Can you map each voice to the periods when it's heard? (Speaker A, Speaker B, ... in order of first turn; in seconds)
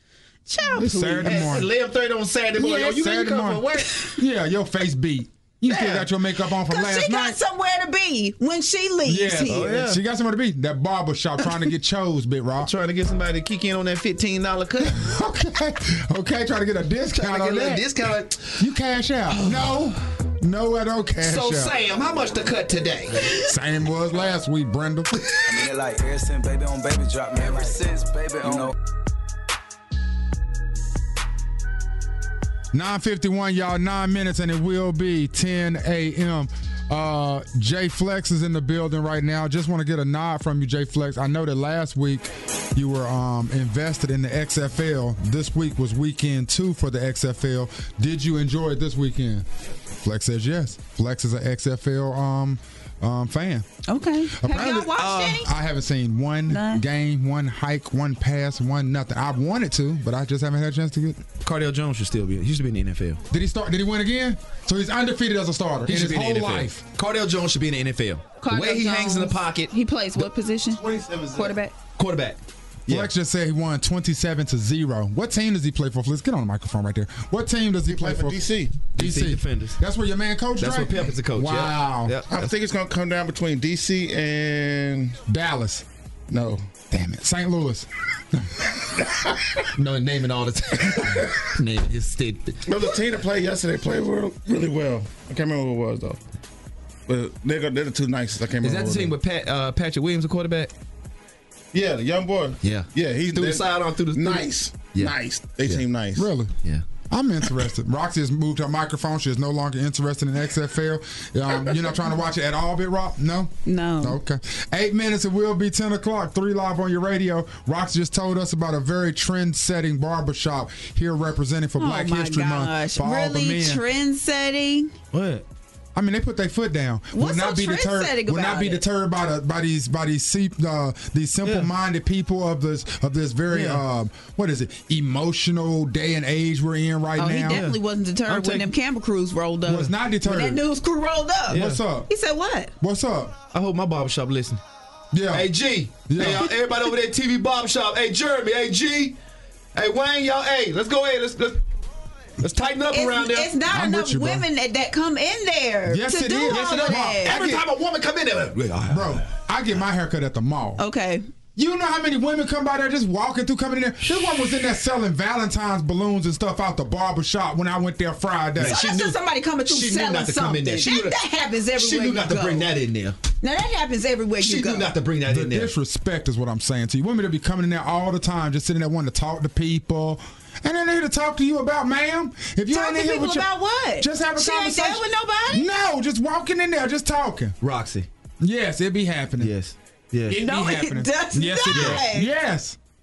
Speaker A: 0.5-1.5, 6.7-9.7, 53.9-55.5, 56.5-56.8, 68.4-71.7, 113.7-114.2, 121.8-124.9, 127.1-128.8, 137.2-142.7, 152.9-157.4, 160.8-161.3, 168.6-172.7, 173.4-174.9, 182.7-185.7, 190.3-192.3
Speaker B: 0.8-1.7, 2.5-7.4, 9.1-12.7, 14.9-17.9, 18.6-21.8, 23.4-25.1, 32.7-49.5, 50.0-53.7, 54.4-61.2, 63.3-66.9, 72.9-82.1, 85.3-85.9, 86.9-88.7, 106.2-106.5, 107.1-123.8, 126.0-137.7, 139.7-140.6, 141.5-142.1, 142.8-143.4, 145.1-145.5, 146.1-146.5, 153.7-154.5, 155.9-157.7, 158.9-160.8, 161.6-168.8, 175.3-187.6, 188.4-189.5, 190.3-192.8
Speaker C: 1.2-4.1, 5.7-6.1, 9.5-10.0, 12.6-15.1, 17.2-18.6, 19.3-19.7, 21.2-23.3, 55.0-55.4, 61.4-63.2, 65.8-70.2, 72.0-73.1, 78.9-79.8, 80.6-82.5, 89.8-92.9, 98.6-100.7, 102.6-105.9, 125.1-125.5, 131.4-131.7, 133.5-133.8, 137.4-138.7, 141.5-141.8, 143.5-144.6, 145.3-149.2, 149.8-151.6, 152.4-153.5, 156.5-159.2, 168.6-171.2, 171.8-173.2, 174.4-175.7, 187.6-188.1, 189.4-190.4, 191.7-192.0
Speaker D: 25.5-28.7
Speaker E: 70.7-71.6, 77.9-78.8, 82.3-85.2, 86.3-86.6, 92.7-96.2, 97.1-99.2, 101.7-106.2